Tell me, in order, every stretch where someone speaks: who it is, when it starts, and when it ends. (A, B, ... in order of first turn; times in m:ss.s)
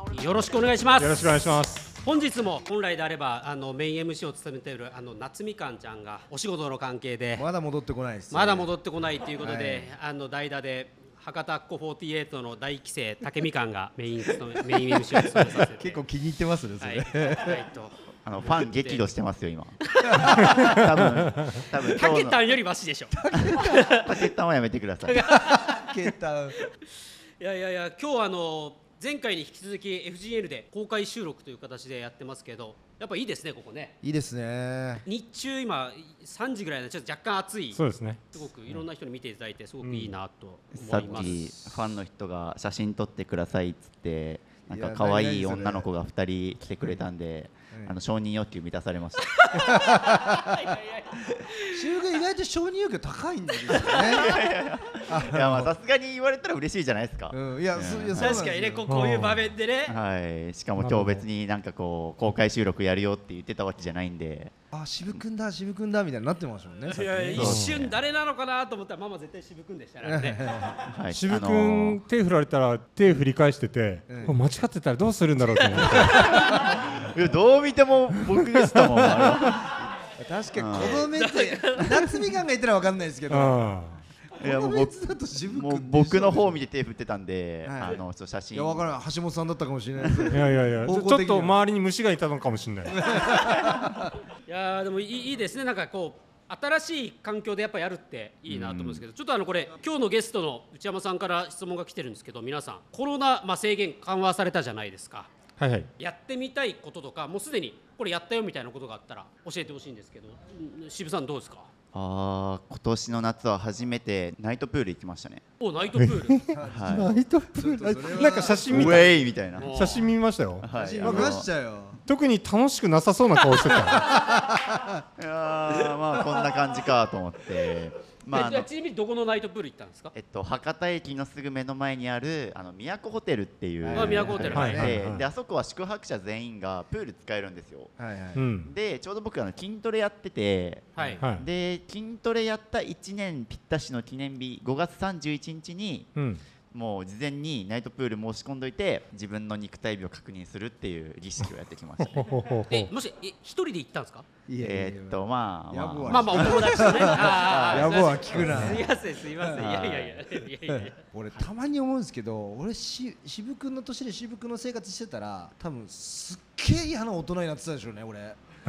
0:00.1-0:01.5 A
0:01.0-0:02.0 B
0:02.0-0:07.5 A
0:07.3-0:08.7 C
0:08.3-0:16.0 A
0:09.4-0:09.9 C
0:14.9-0:17.6 C
0:16.8-0:19.1 A
0:18.2-0:19.8 D
0:20.0-0:20.8 A
0:20.0-0:20.6 C
0:20.6-0:22.5 D
0:21.9-0:24.2 A
0:23.4-0:23.8 C
0:23.5-0:25.2 D
0:25.0-0:26.0 A
0:25.2-0:26.6 C
0:27.4-0:34.0 A
0:34.0-0:35.0 C
0:35.0-0:37.8 A
0:37.7-0:38.2 B
0:38.3-0:41.4 A
0:39.8-0:40.2 B
0:40.7-0:49.4 D
0:41.1-0:42.0 C
0:44.7-0:45.9 C
0:47.7-0:48.0 C
0:49.4-0:51.8 A
0:49.5-0:50.6 C
0:51.7-0:54.3 C
0:53.7-0:54.2 A
0:54.1-0:58.4 D
0:55.0-0:55.7 C
0:57.3-0:58.8 C
0:58.2-1:00.0 A
0:58.9-0:59.5 B
0:59.8-1:04.5 D
1:00.8-1:01.2 B
1:04.7-1:07.6 C
1:06.9-1:10.6 A
1:07.3-1:08.0 D
1:07.4-1:07.7 B
1:10.0-1:10.8 C
1:10.8-1:12.0 D
1:11.1-1:16.4 B
1:14.1-1:14.4 C
1:15.8-1:16.4 A
1:16.9-1:19.7 D
1:18.6-1:19.1 B
1:20.2-1:23.7 C
1:20.6-1:21.1 D
1:20.9-1:22.0 A
1:23.3-1:24.0 B
1:24.4-1:26.6 C
1:24.4-1:28.9 D
1:27.6-1:28.0 C
1:28.5-1:31.6 C
1:30.3-1:33.2 B
1:32.9-1:34.0 C
1:34.4-1:45.3 A
1:38.5-1:39.0 B
1:45.6-1:45.9 B
1:46.0-1:51.7 A
1:51.9-1:55.4 D
1:55.6-1:56.5 A
1:56.0-2:01.4 B
1:56.5-1:59.1 C
1:56.7-1:57.2 D
1:58.6-2:00.0 D
1:59.6-2:00.1 A
2:00.6-2:01.5 D
2:00.7-2:02.0 C
2:02.0-2:04.2 B
2:04.0-2:05.0 C
2:05.2-2:08.7 D
2:08.3-2:10.1 A
2:10.1-2:18.0 D
2:13.8-2:15.0 C
2:13.9-2:14.9 A
2:14.5-2:15.2 B
2:18.0-2:18.4 C
2:18.3-2:18.7 B
2:18.6-2:26.1 D
2:21.0-2:21.2 A
2:21.2-2:21.4 B
2:26.2-2:26.4 B
2:26.7-2:32.3 D
2:32.0-2:32.9 B
2:32.7-2:34.3 A
2:34.5-2:39.9 C
2:34.6-2:38.7 D
2:36.1-2:41.0 A
2:39.6-2:40.2 D
2:40.7-2:48.4 C